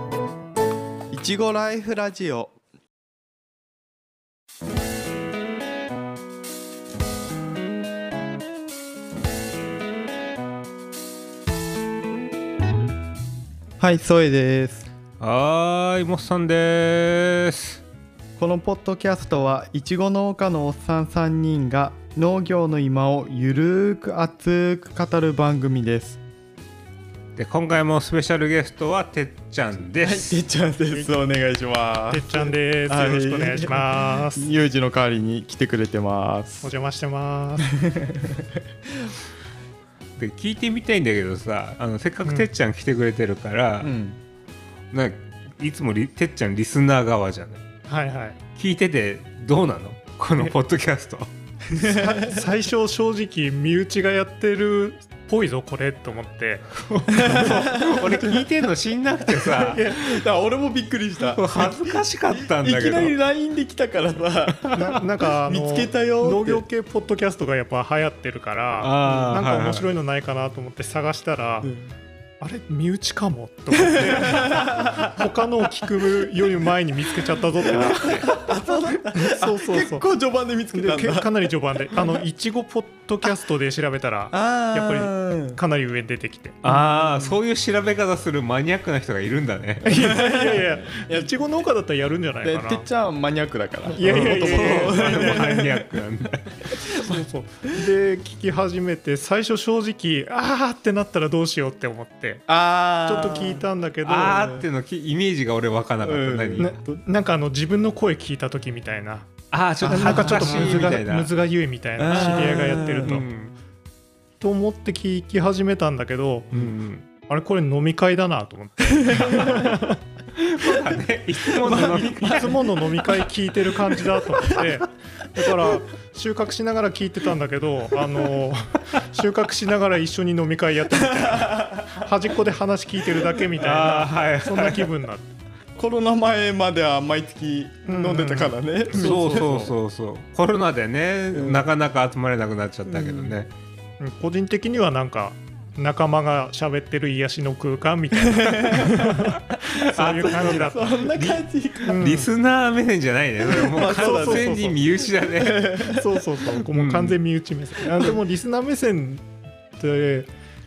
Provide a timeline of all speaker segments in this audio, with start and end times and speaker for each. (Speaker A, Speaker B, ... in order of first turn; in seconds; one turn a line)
Speaker A: 1.1-2.5
Speaker A: 13.8-14.9
Speaker B: 15.2-17.8
Speaker A: 18.4-26.2
Speaker B: 27.4-30.4
Speaker A: 30.0-36.7
Speaker C: 32.1-34.5
Speaker C: 36.6-37.7
Speaker A: 37.7-38.6
Speaker B: 40.2-43.9
Speaker C: 42.2-42.5
Speaker A: 43.8-44.2
Speaker B: 44.9-47.6
Speaker C: 47.9-48.4
Speaker B: 48.6-51.3
Speaker A: 51.7-52.4
Speaker C: 51.9-57.7
Speaker B: 56.8-60.2
Speaker A: 57.1-58.4
Speaker A: 59.5-64.7
Speaker B: 61.2-63.1
Speaker B: 64.6-65.0
Speaker C: 64.7-71.7
Speaker A: 65.5-66.6
Speaker B: 68.8-69.9
Speaker A: 71.6-72.0
Speaker C: 72.4-80.0
Speaker A: 73.7-75.0
Speaker A: 77.6-81.3
Speaker B: 78.0-78.3
Speaker C: 80.7-87.4
Speaker A: 84.3-85.6
Speaker B: 86.6-89.9
Speaker C: 89.8-92.8
Speaker A: 90.1-91.3
Speaker A: 92.4-95.9
Speaker C: 93.9-95.7
Speaker B: 94.1-96.7
Speaker C: 96.7-102.5
Speaker A: 102.5-103.7
Speaker C: 103.0-104.5
Speaker B: 104.0-106.8
Speaker A: 106.0-107.1
Speaker C: 106.6-109.3
Speaker B: 109.5-111.3
Speaker A: 109.8-110.9
Speaker C: 109.9-113.3
Speaker A: 112.0-113.1
Speaker B: 112.1-113.5
Speaker C: 114.4-116.6
Speaker B: 116.5-117.1
Speaker C: 117.2-120.0
Speaker A: 118.9-119.5
Speaker B: 120.4-122.7
Speaker A: 121.6-122.5
Speaker C: 121.9-135.3
Speaker A: 131.0-132.0
Speaker B: 133.6-134.9
Speaker A: 135.8-139.8
Speaker C: 137.9-139.4
Speaker B: 138.9-143.5
Speaker A: 141.3-141.7
Speaker A: 142.9-143.3
Speaker C: 144.0-151.0
Speaker A: 148.1-148.8
Speaker B: 148.6-155.7
Speaker A: 150.1-151.9
Speaker C: 151.8-152.3
Speaker A: 153.4-154.8
Speaker C: 153.8-154.7
Speaker A: 155.3-156.1
Speaker C: 155.8-159.2
Speaker B: 156.7-157.2
Speaker C: 159.8-160.3